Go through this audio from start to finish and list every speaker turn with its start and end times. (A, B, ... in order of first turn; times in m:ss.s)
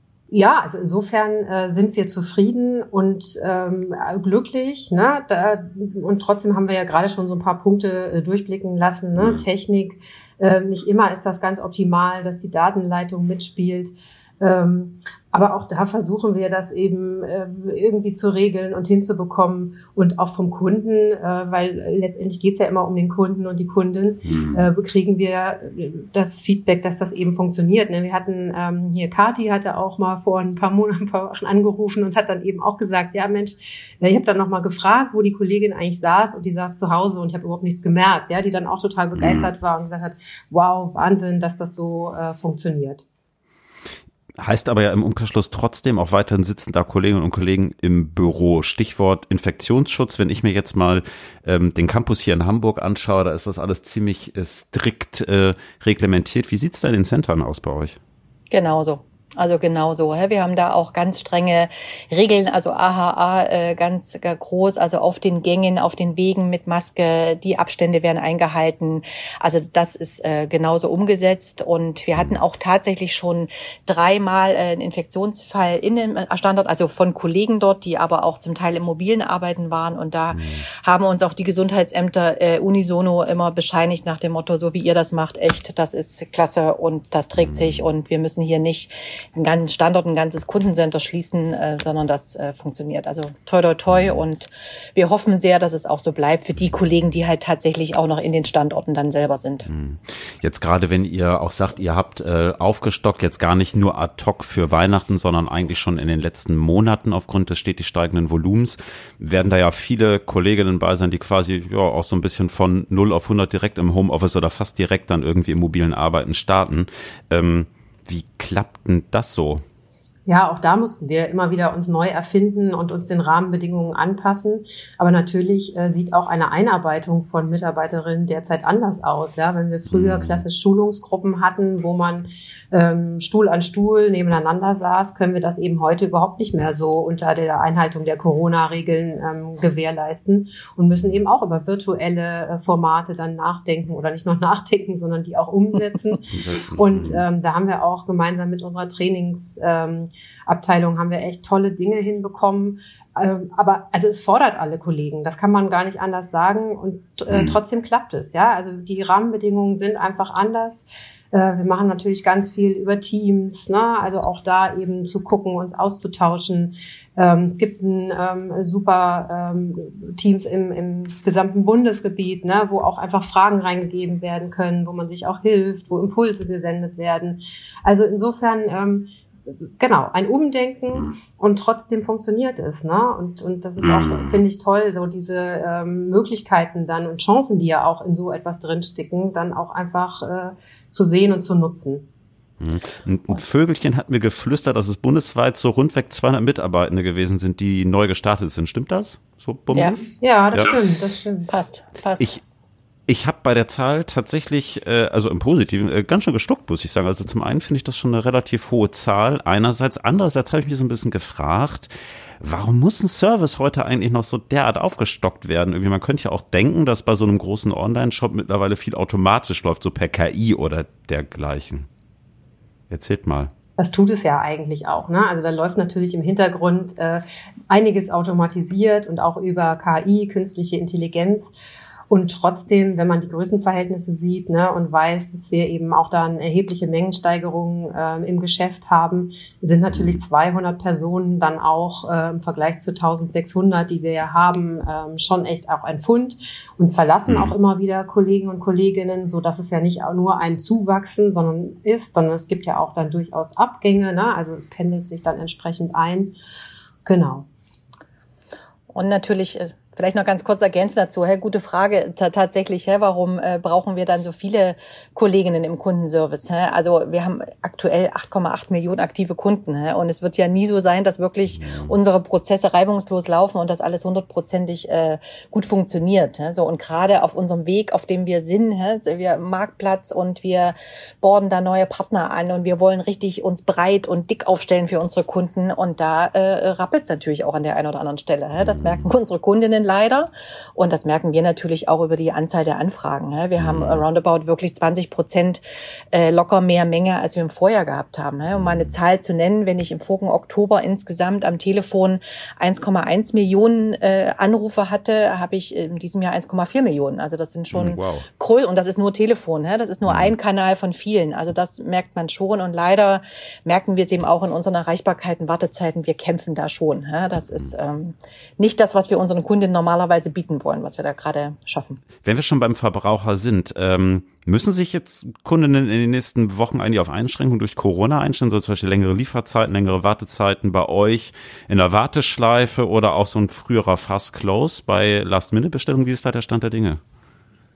0:00.3-0:43.0 A
0:09.1-0:09.4 B
0:24.2-0:24.6 B
0:39.2-0:39.5 B
0:44.4-0:58.0 B
0:58.5-1:39.7 C
1:12.1-1:12.4 B
1:20.3-1:20.7 B
1:33.9-1:34.2 B
1:39.7-1:59.6 B
2:00.2-3:12.0 A
2:09.9-2:10.4 B
2:26.3-2:27.2 B
2:37.3-2:37.6 B
3:03.8-3:04.4 B
3:12.6-3:20.0 B
3:19.7-3:20.0 C
3:20.1-3:21.5 A
3:21.5-3:22.3 C
3:23.1-3:41.9 B
3:42.9-3:43.5 B
3:43.8-3:51.5 A
3:52.1-4:16.4 A
3:59.9-4:00.2 B
4:07.3-4:07.5 B
4:17.0-4:17.4 A
4:18.9-4:55.6 C
4:31.6-4:31.9 B
4:48.6-4:49.1 B
4:53.6-4:54.0 B
4:56.1-5:22.0 C
5:07.7-5:08.3 B
5:10.0-5:10.3 B
5:22.2-5:37.0 B